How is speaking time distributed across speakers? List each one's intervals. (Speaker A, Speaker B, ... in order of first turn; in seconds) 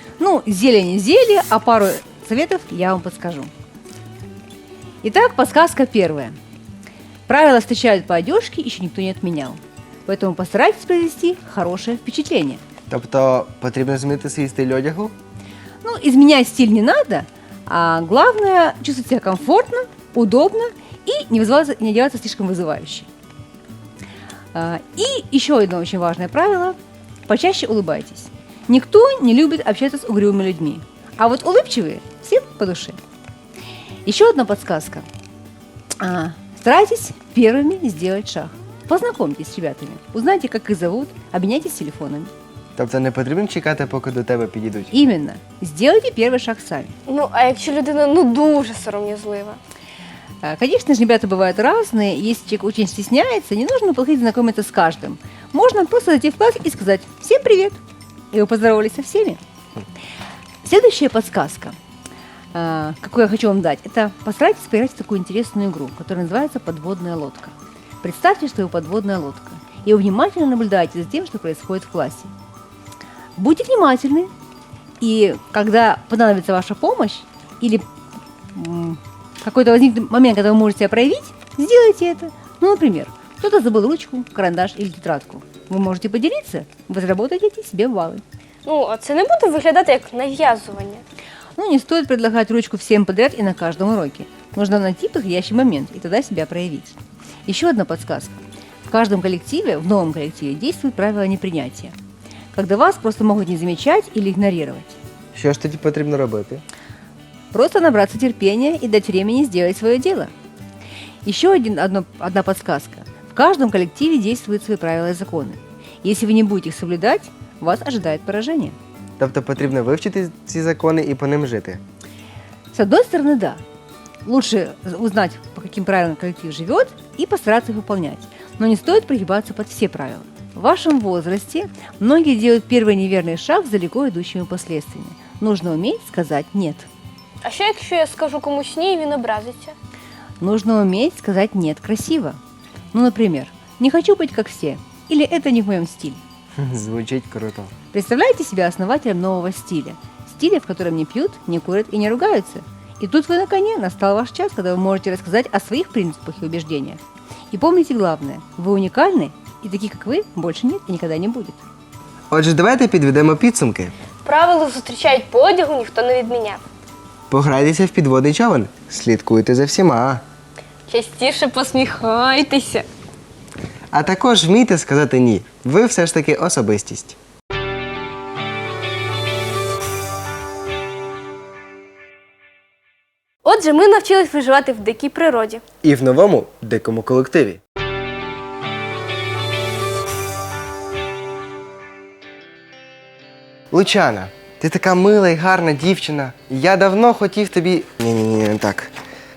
Speaker A: 0.2-3.5, 5.0-6.4, 7.3-12.6, 15.8-23.1, 24.5-33.0, 34.0-35.1, 36.0-42.3, 44.9-47.0, 50.4-57.8, 58.3-59.4, 60.6-61.8, 62.5-72.3, 73.4-74.3, 75.0-77.9, 78.5-88.2, 91.5-102.0, 102.5-105.0, 107.5-110.3, 111.2-118.8, 122.7-123.6, 124.2-136.9, 140.4-142.4, 142.9-146.2, 147.9-157.0, 157.5-161.6
Speaker B: 12.9-15.2, 42.8-44.9, 105.3-106.6, 119.2-121.8, 146.6-147.7, 162.3-163.9, 167.3-170.2, 173.9-177.2, 185.8-187.6, 193.7-198.9
Speaker C: 47.1-49.6, 88.7-91.0, 137.4-139.8, 164.2-166.6, 170.9-172.9, 183.4-185.6